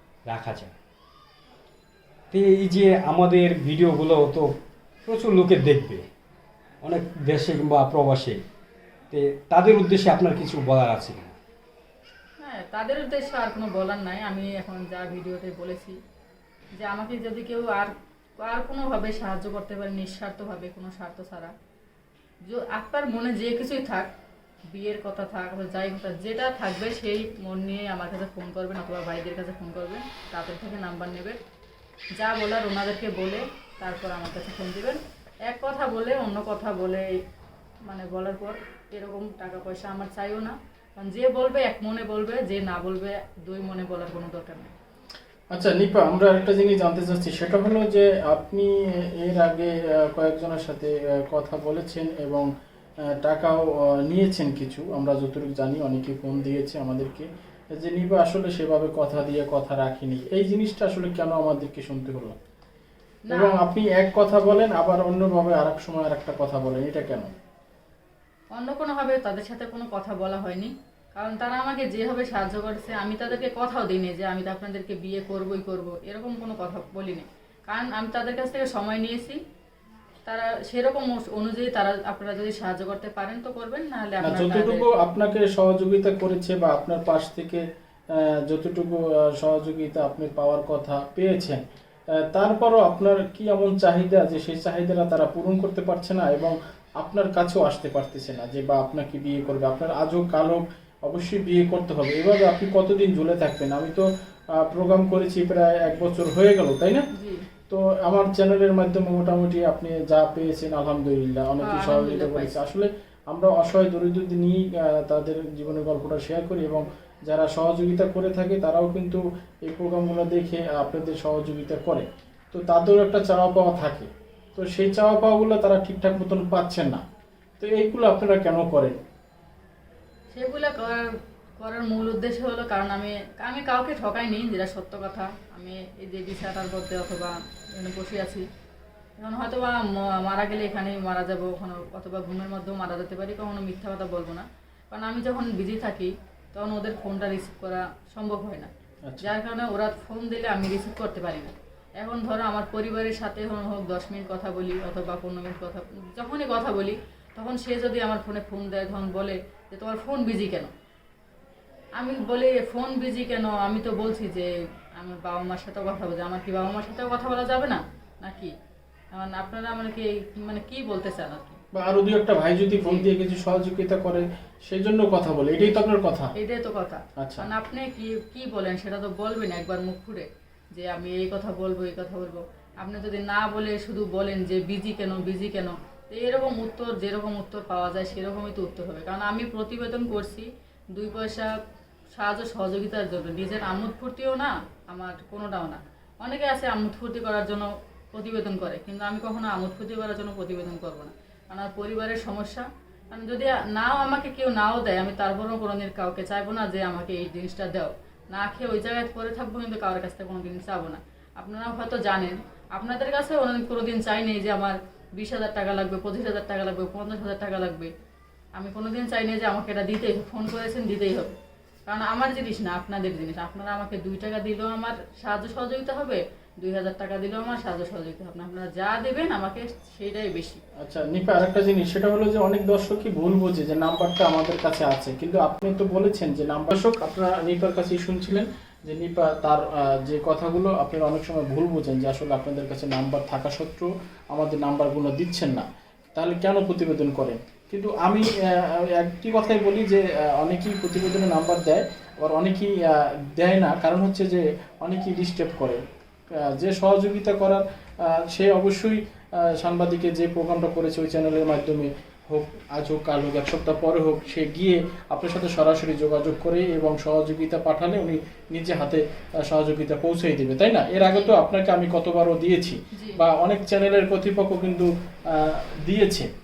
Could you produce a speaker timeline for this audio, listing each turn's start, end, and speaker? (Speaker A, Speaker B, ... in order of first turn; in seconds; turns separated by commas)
Speaker A: 0.3-0.8, Speaker A: 2.3-4.5, Speaker A: 5.1-6.0, Speaker A: 6.8-8.4, Speaker A: 9.1-11.4, Speaker B: 12.4-16.0, Speaker B: 16.8-21.5, Speaker B: 22.4-24.1, Speaker B: 24.7-31.4, Speaker B: 32.2-37.1, Speaker B: 37.9-44.7, Speaker C: 45.5-52.5, Speaker C: 53.2-62.4, Speaker B: 63.3-63.7, Speaker C: 63.3-67.3, Speaker B: 68.5-79.4, Speaker B: 80.3-84.9, Speaker C: 84.2-91.6, Speaker C: 92.2-107.1, Speaker B: 107.2-107.4, Speaker C: 107.7-127.0, Speaker B: 111.6-112.6, Speaker C: 127.6-129.0, Speaker B: 130.3-131.1, Speaker B: 131.6-138.4, Speaker B: 139.2-148.7, Speaker C: 149.1-149.3, Speaker B: 149.2-160.7, Speaker B: 162.0-168.5, Speaker B: 169.2-171.6, Speaker C: 171.7-176.3, Speaker B: 172.8-173.1, Speaker B: 176.4-191.5, Speaker C: 177.2-177.5, Speaker B: 192.2-217.9, Speaker B: 218.6-221.3, Speaker B: 221.9-230.6, Speaker C: 230.8-255.8, Speaker C: 256.3-276.3, Speaker B: 271.1-271.4, Speaker B: 273.0-273.2